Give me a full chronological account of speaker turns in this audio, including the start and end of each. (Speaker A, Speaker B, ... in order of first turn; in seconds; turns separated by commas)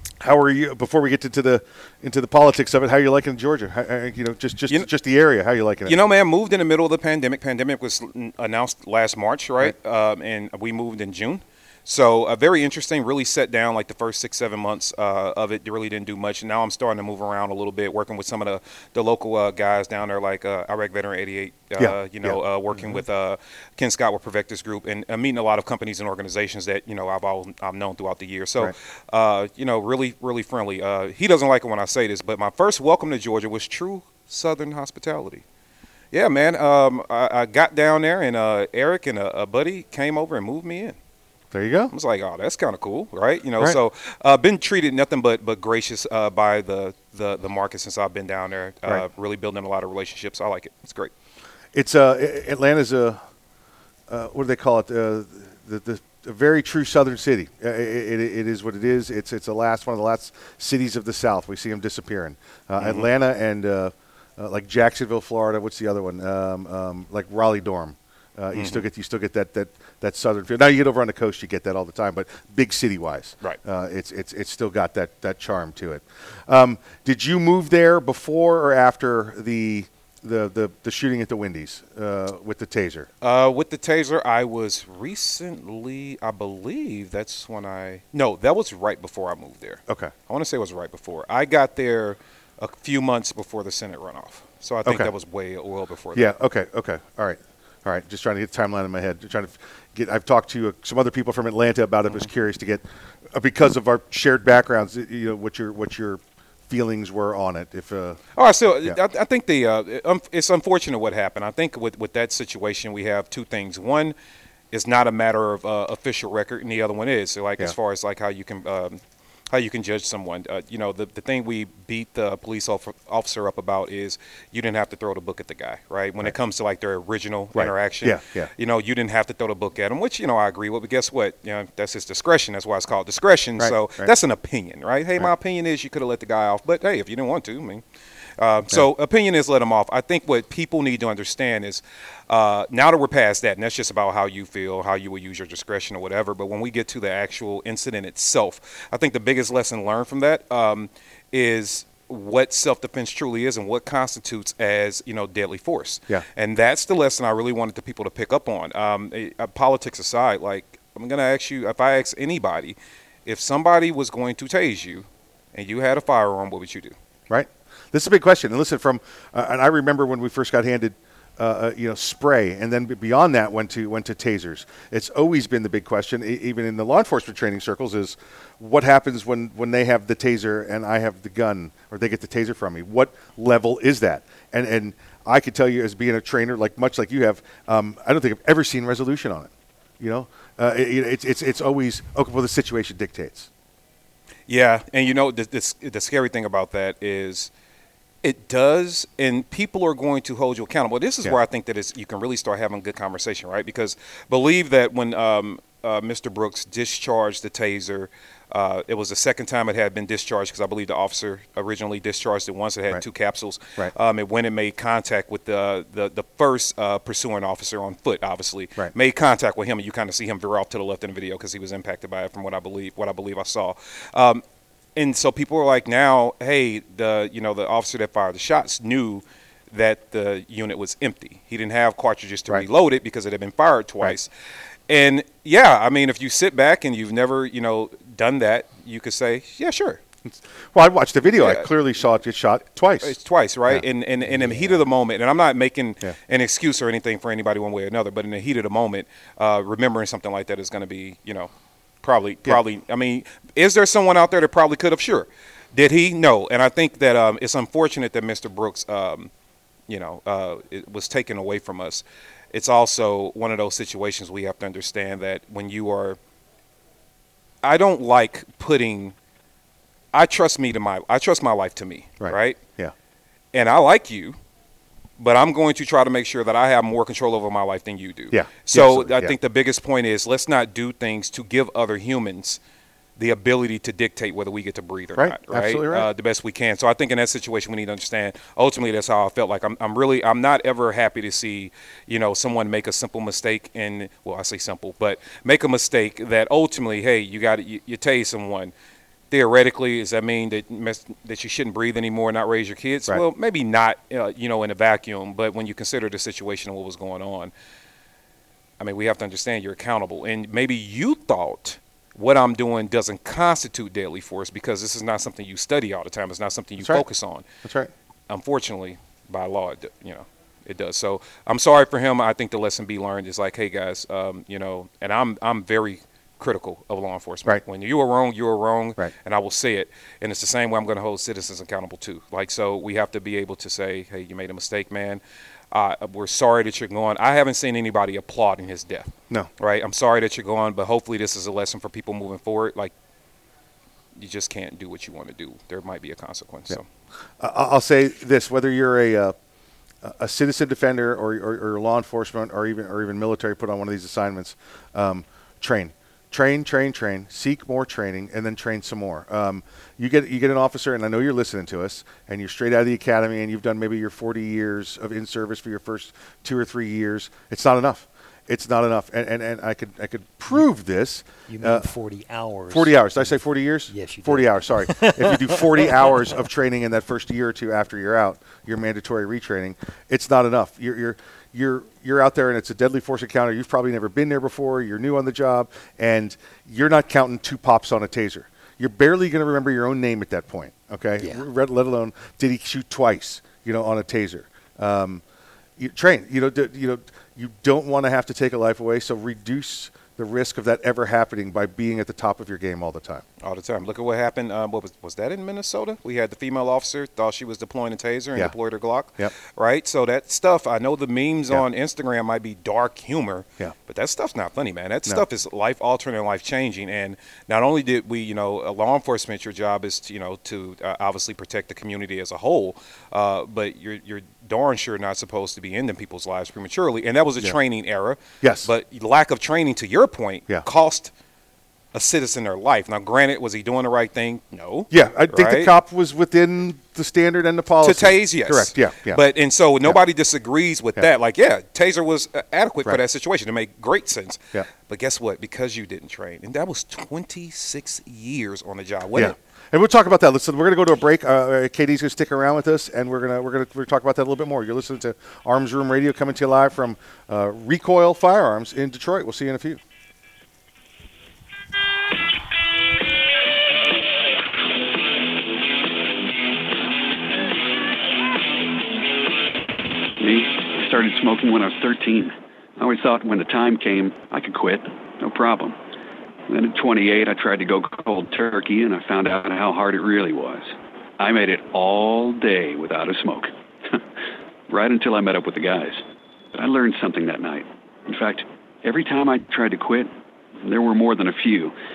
Speaker A: 0.2-6.0, Speaker B: 5.8-35.4, Speaker A: 21.8-23.0, Speaker B: 36.1-41.0, Speaker A: 41.5-41.9, Speaker B: 41.9-51.1, Speaker A: 51.7-53.2, Speaker A: 54.1-83.1, Speaker B: 62.8-63.1, Speaker B: 68.5-68.8, Speaker B: 83.2-96.3, Speaker A: 89.9-90.1, Speaker A: 96.1-108.2, Speaker B: 108.3-114.1, Speaker B: 114.7-137.8, Speaker A: 127.5-128.5, Speaker A: 133.6-134.1, Speaker B: 138.4-166.9, Speaker A: 167.3-193.5, Speaker B: 194.5-197.5, Speaker B: 198.2-224.4, Speaker B: 224.9-234.3, Speaker B: 234.9-240.0, Speaker A: 240.2-243.2, Speaker B: 241.3-241.7, Speaker B: 243.0-251.5, Speaker A: 243.7-244.8, Speaker B: 252.0-259.3, Speaker B: 259.9-266.2, Speaker B: 267.6-269.1, Speaker B: 270.1-272.6, Speaker A: 272.2-272.9, Speaker B: 273.5-274.4, Speaker B: 275.2-282.6, Speaker A: 278.3-279.3, Speaker B: 283.2-298.7, Speaker A: 285.1-286.1, Speaker B: 299.3-307.5, Speaker B: 308.8-317.4, Speaker A: 316.8-317.0, Speaker A: 317.6-317.9, Speaker B: 318.3-342.9, Speaker B: 344.2-346.8, Speaker A: 347.4-349.4, Speaker A: 350.0-371.9, Speaker C: 371.5-376.3, Speaker A: 372.7-395.2, Speaker A: 395.8-403.2, Speaker B: 403.4-431.1, Speaker A: 428.4-428.7, Speaker B: 431.9-435.7, Speaker A: 434.9-439.2, Speaker B: 437.8-449.4, Speaker A: 449.1-459.8, Speaker D: 470.2-475.8, Speaker D: 476.5-483.9, Speaker D: 484.7-486.0, Speaker D: 486.5-491.7